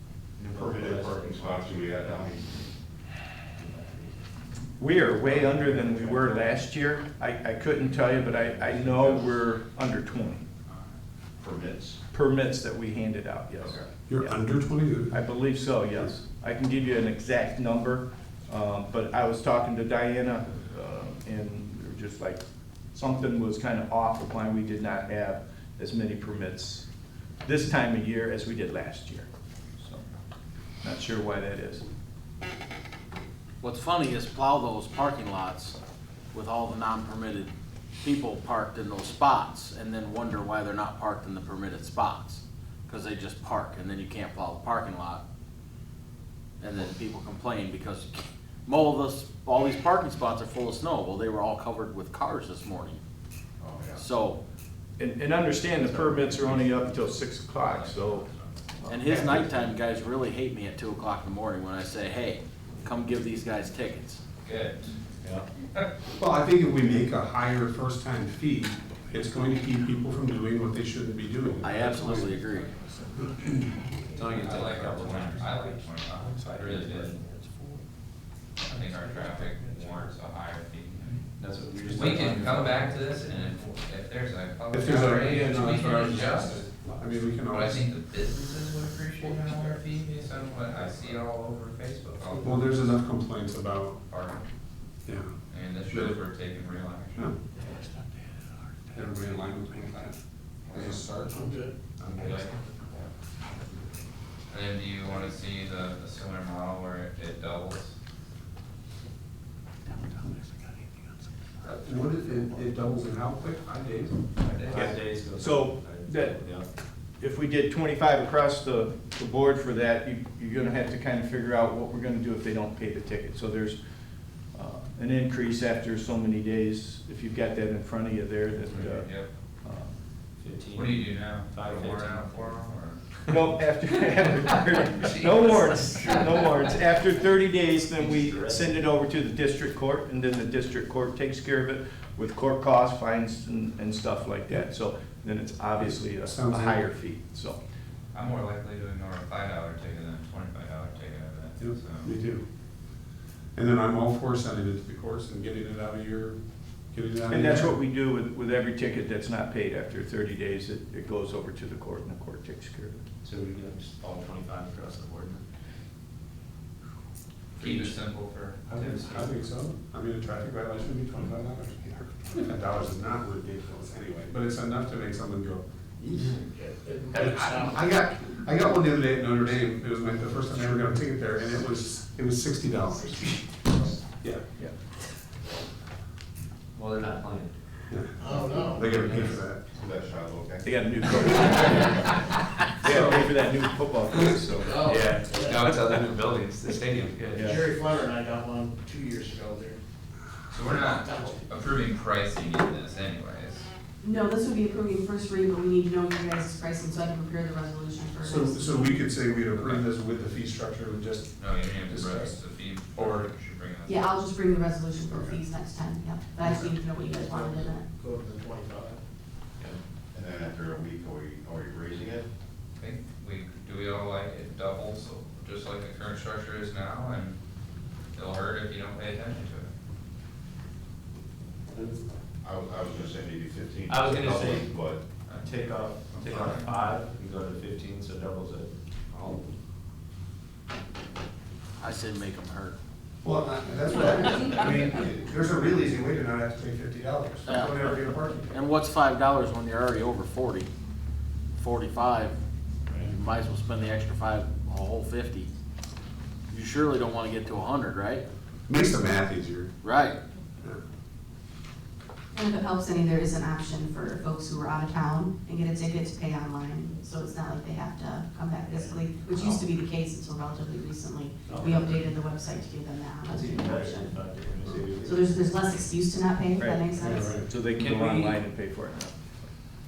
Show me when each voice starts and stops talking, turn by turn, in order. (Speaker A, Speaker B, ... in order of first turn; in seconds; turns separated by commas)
Speaker A: 0.4-2.3, Speaker B: 0.5-2.4, Speaker A: 3.6-4.1, Speaker C: 4.8-10.4, Speaker A: 5.2-6.4, Speaker A: 7.8-9.1, Speaker D: 10.7-10.9, Speaker B: 11.4-12.0, Speaker C: 12.1-14.3, Speaker B: 13.6-13.9, Speaker E: 14.1-15.2, Speaker C: 15.1-26.9, Speaker C: 27.4-30.0, Speaker C: 30.8-31.8, Speaker F: 33.6-35.8, Speaker F: 36.3-37.5, Speaker F: 38.0-45.2, Speaker F: 46.6-53.0, Speaker B: 53.6-54.0, Speaker F: 53.9-54.4, Speaker C: 55.0-58.3, Speaker A: 55.9-56.8, Speaker D: 57.5-58.9, Speaker C: 58.8-59.5, Speaker F: 58.9-64.2, Speaker D: 64.4-64.8, Speaker A: 64.5-65.5, Speaker E: 66.2-72.4, Speaker F: 71.6-72.7, Speaker A: 74.1-75.5, Speaker D: 74.3-77.1, Speaker A: 76.2-77.2, Speaker D: 78.7-81.2, Speaker A: 79.6-80.1, Speaker A: 81.3-82.9, Speaker D: 81.8-86.6, Speaker E: 84.7-87.9, Speaker D: 87.5-92.9, Speaker E: 92.4-94.0, Speaker D: 94.1-94.5, Speaker E: 95.0-95.3, Speaker D: 95.5-97.3, Speaker E: 95.9-96.2, Speaker E: 98.9-100.2, Speaker D: 100.7-101.0, Speaker E: 100.7-102.4, Speaker G: 101.2-101.7, Speaker D: 102.1-103.0, Speaker A: 102.1-102.6, Speaker D: 104.5-107.9, Speaker E: 111.6-114.2, Speaker D: 114.4-114.8, Speaker A: 114.6-116.7, Speaker C: 114.7-116.4, Speaker C: 117.2-123.8, Speaker C: 124.5-130.0, Speaker D: 128.7-129.3, Speaker A: 130.4-133.4, Speaker D: 130.7-133.0, Speaker C: 133.3-147.6, Speaker D: 135.0-136.6, Speaker A: 137.9-138.8, Speaker E: 146.2-146.9, Speaker D: 148.1-152.1, Speaker E: 151.6-152.4, Speaker E: 153.5-156.4, Speaker E: 156.9-157.8, Speaker C: 157.3-163.0, Speaker A: 163.2-165.4, Speaker A: 167.6-168.0, Speaker D: 167.6-169.3, Speaker E: 168.7-176.3, Speaker G: 176.2-177.7, Speaker E: 177.1-183.3, Speaker A: 186.7-187.5, Speaker E: 187.9-189.6, Speaker G: 188.2-188.8, Speaker A: 188.2-189.4, Speaker B: 189.7-190.7, Speaker C: 190.6-195.0, Speaker A: 192.9-193.2, Speaker G: 194.6-195.5, Speaker A: 194.7-197.7, Speaker C: 197.3-197.7, Speaker G: 197.5-199.8, Speaker D: 200.5-203.7, Speaker H: 204.0-209.0, Speaker E: 208.2-212.4, Speaker D: 211.3-214.2, Speaker E: 212.9-213.2, Speaker H: 213.8-217.8, Speaker E: 215.1-215.4, Speaker E: 216.4-216.7, Speaker G: 217.3-219.0, Speaker B: 220.1-222.3, Speaker D: 222.8-227.4, Speaker D: 228.1-229.7, Speaker B: 232.4-235.0, Speaker A: 233.9-234.8, Speaker D: 235.2-235.6, Speaker A: 235.4-239.4, Speaker D: 236.1-236.8, Speaker F: 241.8-242.8, Speaker E: 243.2-248.5, Speaker F: 247.4-247.9, Speaker F: 248.5-250.7, Speaker F: 251.6-252.4, Speaker F: 253.0-255.5, Speaker F: 256.5-258.2, Speaker E: 258.7-259.7, Speaker F: 259.8-260.2, Speaker H: 262.3-274.1, Speaker A: 268.7-269.6, Speaker A: 271.4-272.1, Speaker A: 273.2-275.3, Speaker E: 274.6-275.0, Speaker H: 275.0-277.4, Speaker C: 276.6-279.5, Speaker E: 277.0-277.4, Speaker A: 277.7-278.4